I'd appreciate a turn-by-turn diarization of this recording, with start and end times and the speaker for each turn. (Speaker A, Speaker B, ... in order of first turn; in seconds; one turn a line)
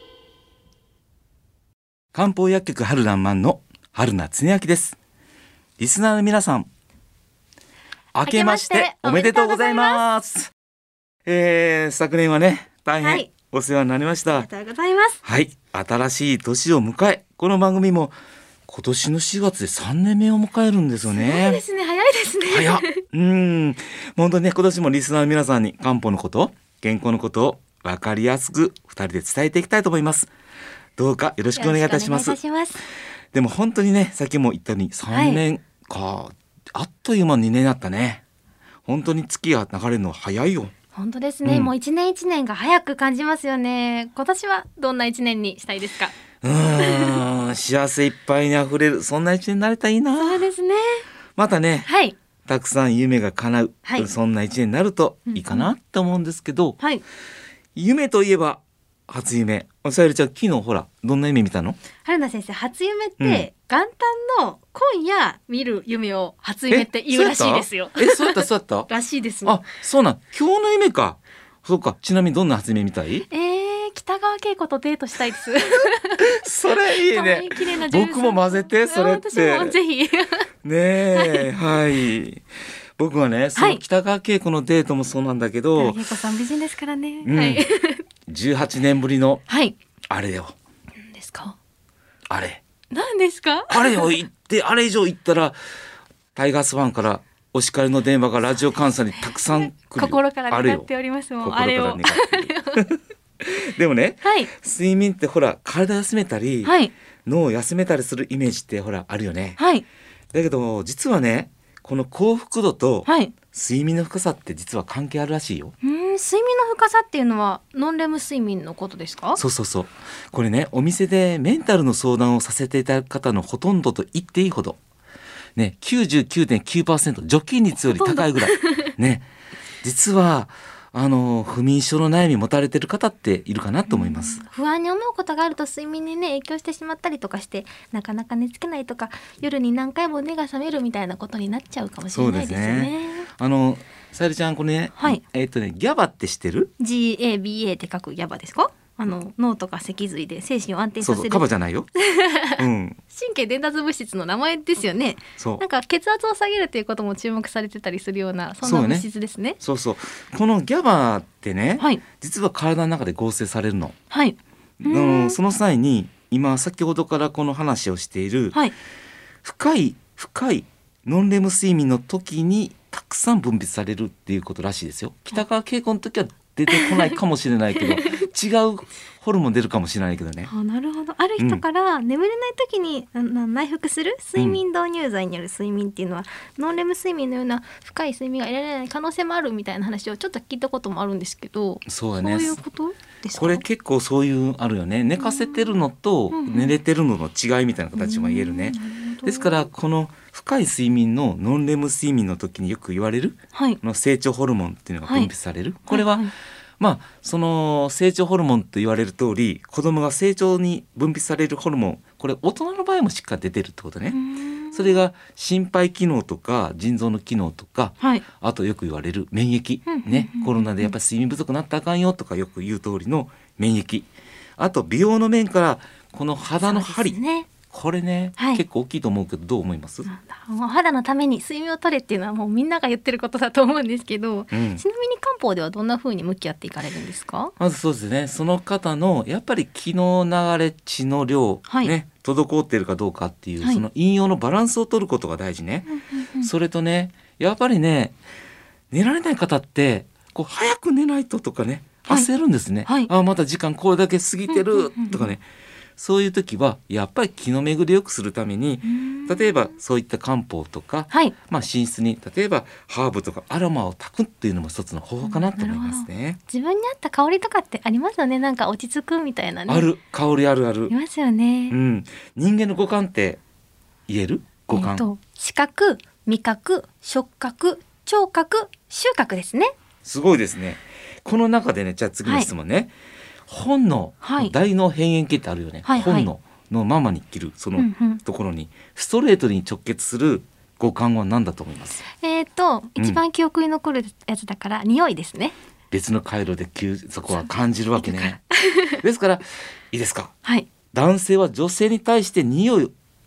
Speaker A: 2.1-5.0
Speaker A: 5.8-6.7
Speaker A: 8.1-10.5
Speaker B: 8.2-10.0
Speaker A: 11.3-14.5
Speaker B: 13.0-13.3
Speaker B: 14.3-15.2
Speaker A: 15.2-18.1
Speaker A: 18.7-21.6
Speaker B: 21.1-23.0
Speaker A: 22.5-30.3
Speaker A: 31.0-32.4
Speaker B: 31.6-32.8
Speaker A: 33.3-38.2
Speaker B: 35.1-35.4
Speaker A: 38.9-40.7
Speaker B: 40.9-46.1
Speaker A: 41.4-41.7
Speaker A: 46.4-50.5
Speaker B: 46.8-47.2
Speaker B: 50.2-51.0
Speaker A: 51.4-51.9
Speaker B: 51.9-52.2
Speaker A: 52.5-56.8
Speaker B: 55.3-55.7
Speaker A: 57.8-61.8
Speaker B: 62.0-69.6
Speaker A: 63.2-63.5
Speaker A: 66.7-68.9
Speaker A: 69.4-73.3
Speaker B: 73.3-76.2
Speaker A: 76.2-79.8
Speaker B: 76.9-80.5
Speaker A: 80.6-82.4
Speaker B: 81.1-81.5
Speaker A: 83.0-86.0
Speaker B: 83.6-83.8
Speaker B: 85.8-88.0
Speaker A: 87.2-87.7
Speaker A: 88.3-89.4
Speaker B: 89.5-89.8
Speaker A: 90.1-90.5
Speaker B: 91.1-91.6
Speaker A: 92.3-92.6
Speaker B: 92.9-94.1
Speaker A: 93.7-95.6
Speaker A: 96.3-100.9
Speaker B: 99.5-102.8
Speaker A: 101.4-106.8
Speaker B: 104.2-104.5
Speaker B: 106.6-106.9
Speaker A: 107.3-109.6
Speaker B: 109.6-109.8
Speaker A: 110.3-115.7
Speaker B: 113.1-113.3
Speaker B: 115.8-119.4
Speaker A: 119.4-124.8
Speaker A: 125.6-129.3
Speaker B: 127.9-128.9
Speaker A: 129.8-134.4
Speaker B: 133.9-143.3
Speaker A: 142.1-146.7
Speaker B: 145.0-145.2
Speaker B: 146.8-151.5
Speaker A: 151.0-151.9
Speaker B: 152.0-159.6
Speaker A: 152.6-153.0
Speaker A: 155.4-155.6
Speaker A: 158.6-159.1
Speaker A: 159.6-164.0
Speaker B: 161.8-162.0
Speaker B: 164.1-165.4
Speaker A: 164.8-168.6
Speaker A: 169.4-180.5
Speaker B: 176.7-177.1
Speaker B: 180.5-193.7
Speaker A: 181.4-181.6
Speaker A: 191.8-192.6
Speaker A: 193.3-206.3
Speaker B: 195.1-195.8
Speaker B: 196.3-196.8
Speaker B: 197.9-199.7
Speaker B: 203.5-203.8
Speaker B: 205.1-205.3
Speaker B: 205.9-206.3
Speaker A: 206.8-214.2
Speaker B: 214.1-215.1
Speaker A: 214.7-227.2
Speaker B: 219.9-220.9
Speaker B: 226.6-227.5
Speaker A: 227.7-230.1
Speaker B: 228.4-228.6
Speaker B: 230.1-237.5
Speaker A: 234.5-234.8
Speaker A: 237.6-245.9
Speaker B: 241.7-241.9
Speaker B: 245.9-246.5
Speaker A: 246.4-248.2
Speaker A: 248.9-255.4
Speaker B: 252.8-253.1
Speaker B: 254.5-255.3
Speaker A: 256.0-266.4
Speaker B: 258.8-259.8
Speaker B: 261.1-261.4
Speaker B: 265.2-269.9
Speaker A: 269.7-270.9
Speaker B: 270.9-271.8
Speaker A: 271.7-273.4
Speaker A: 274.1-275.1
Speaker B: 274.7-279.7
Speaker A: 280.0-282.9
Speaker A: 283.5-292.0
Speaker B: 284.2-284.5
Speaker B: 285.9-286.3
Speaker B: 287.8-288.2
Speaker B: 292.2-295.5
Speaker A: 295.9-300.3
Speaker B: 298.0-298.9
Speaker A: 300.9-302.9